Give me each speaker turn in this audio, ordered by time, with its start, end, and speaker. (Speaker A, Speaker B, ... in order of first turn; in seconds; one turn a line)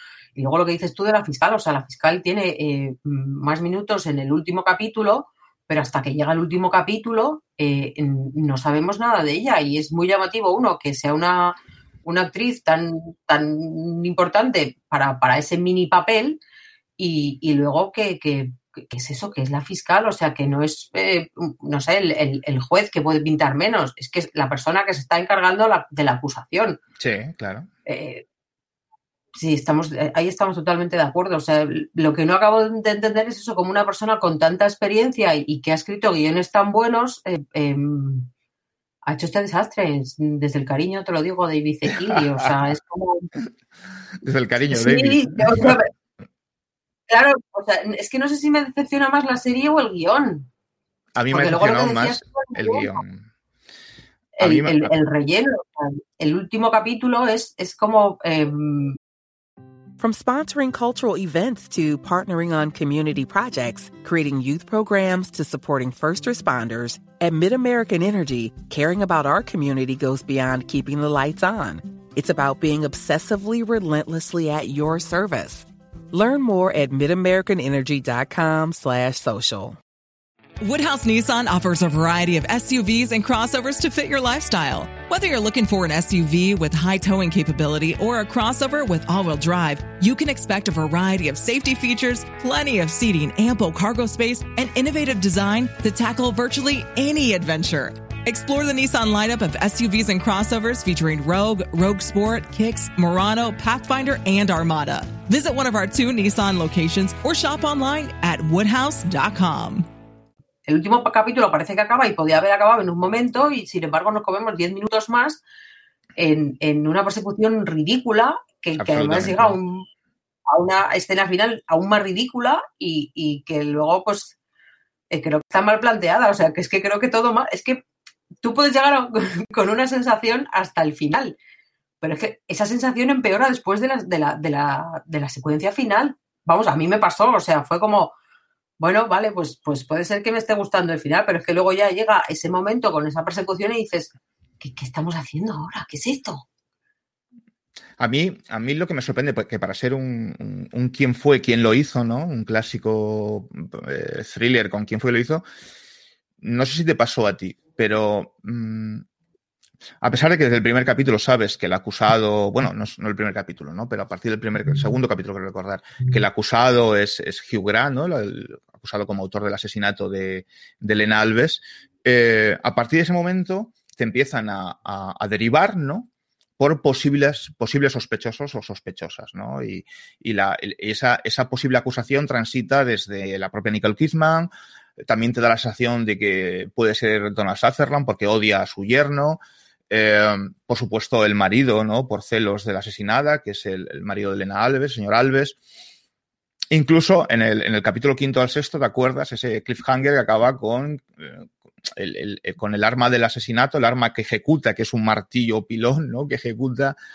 Speaker A: 0.3-16.4
Speaker A: 17.0-26.8
Speaker B: 27.0-27.7
Speaker A: 27.9-28.2
Speaker A: 29.3-38.3
Speaker A: 39.0-43.2
Speaker B: 44.2-45.8
Speaker A: 44.7-45.9
Speaker A: 47.1-50.5
Speaker B: 51.1-53.3
Speaker A: 51.3-53.0
Speaker A: 54.4-59.0
Speaker B: 54.4-54.9
Speaker C: 60.0-79.8
Speaker D: 80.6-109.9
Speaker A: 110.7-115.4
Speaker A: 116.2-119.8
Speaker B: 118.8-119.6
Speaker A: 120.5-124.3
Speaker A: 125.1-127.8
Speaker A: 128.4-131.3
Speaker A: 132.0-138.1
Speaker A: 138.8-146.4
Speaker B: 148.0-155.4
Speaker B: 156.4-159.0
Speaker B: 160.0-195.6
Speaker B: 196.7-206.9